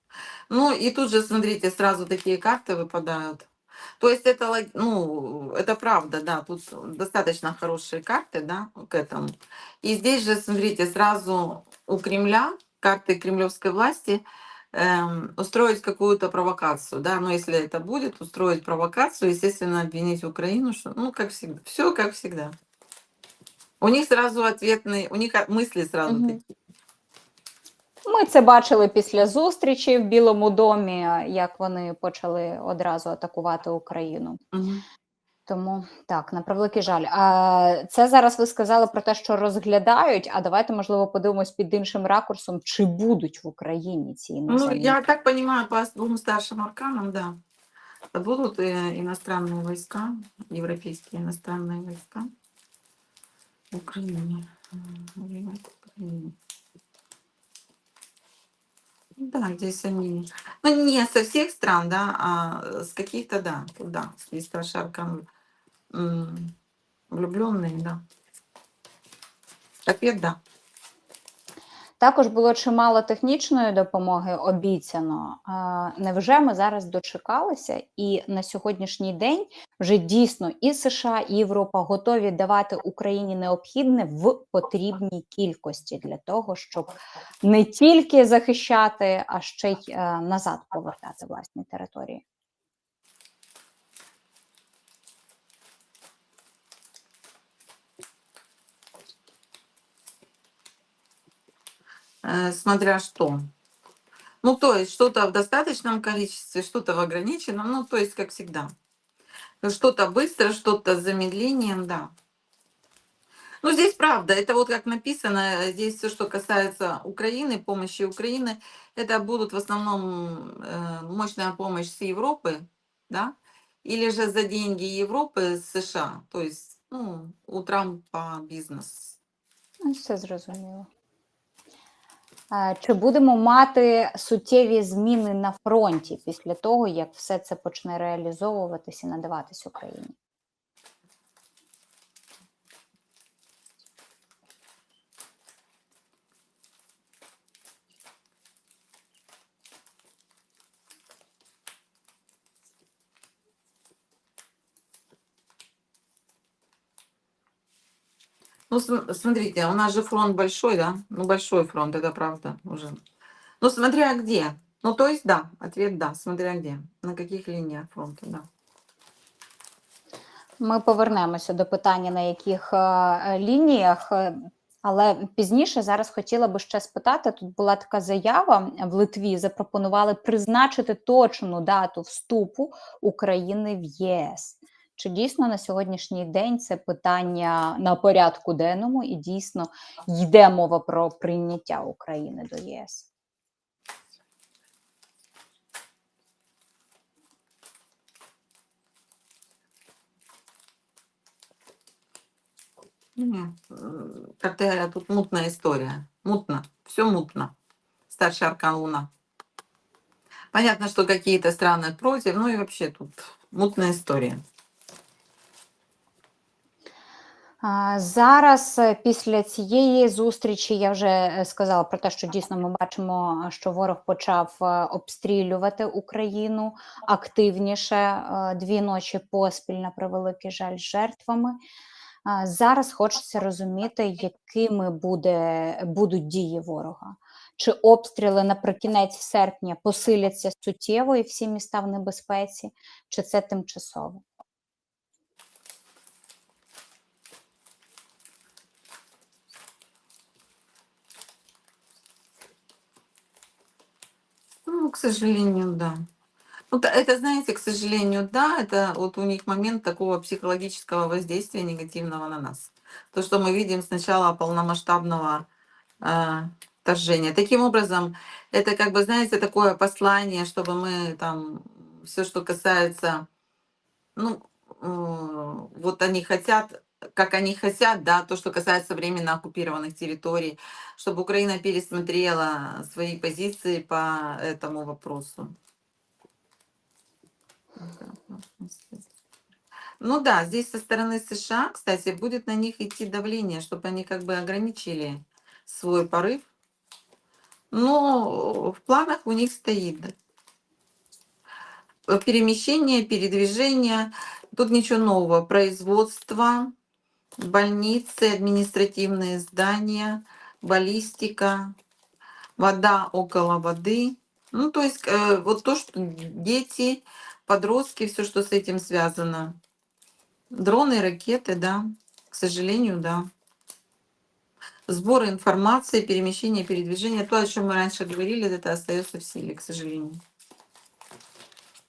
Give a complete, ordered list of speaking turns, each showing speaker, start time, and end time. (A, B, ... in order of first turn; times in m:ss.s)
0:00.5-0:03.5 A
0:04.0-0:22.5 A
0:23.8-0:26.4 A
0:26.1-0:26.4 B
0:28.0-0:34.4 B
0:34.5-0:34.8 A
0:35.5-0:45.0 B
0:44.5-0:47.4 A
0:48.1-0:52.3 A
0:53.7-0:56.3 A
0:59.2-1:05.2 A
1:05.9-1:06.5 A
1:07.1-1:08.0 A
1:09.8-1:10.4 A
1:12.0-1:32.2 B
1:42.2-1:43.5 A
1:44.4-1:48.7 A
1:49.6-1:52.1 A
1:53.6-2:09.2 A
2:09.8-2:10.9 B
2:12.5-2:20.1 B
2:38.7-2:43.0 A
2:43.6-2:48.5 A
2:50.6-3:13.1 B
3:23.2-3:27.5 A
3:28.1-3:29.1 A
3:30.5-3:34.4 A
3:37.6-3:51.6 B
3:52.2-4:04.2 B
4:14.6-4:16.0 A
4:16.7-4:25.4 A
4:26.0-4:33.3 A
4:34.2-4:45.5 A
4:47.8-4:49.1 A
4:50.0-4:56.5 A
4:57.7-5:00.1 A
5:02.1-5:06.7 A
5:07.4-5:11.7 A
5:12.6-5:19.6 A
5:20.5-5:23.3 A
5:24.9-5:30.2 A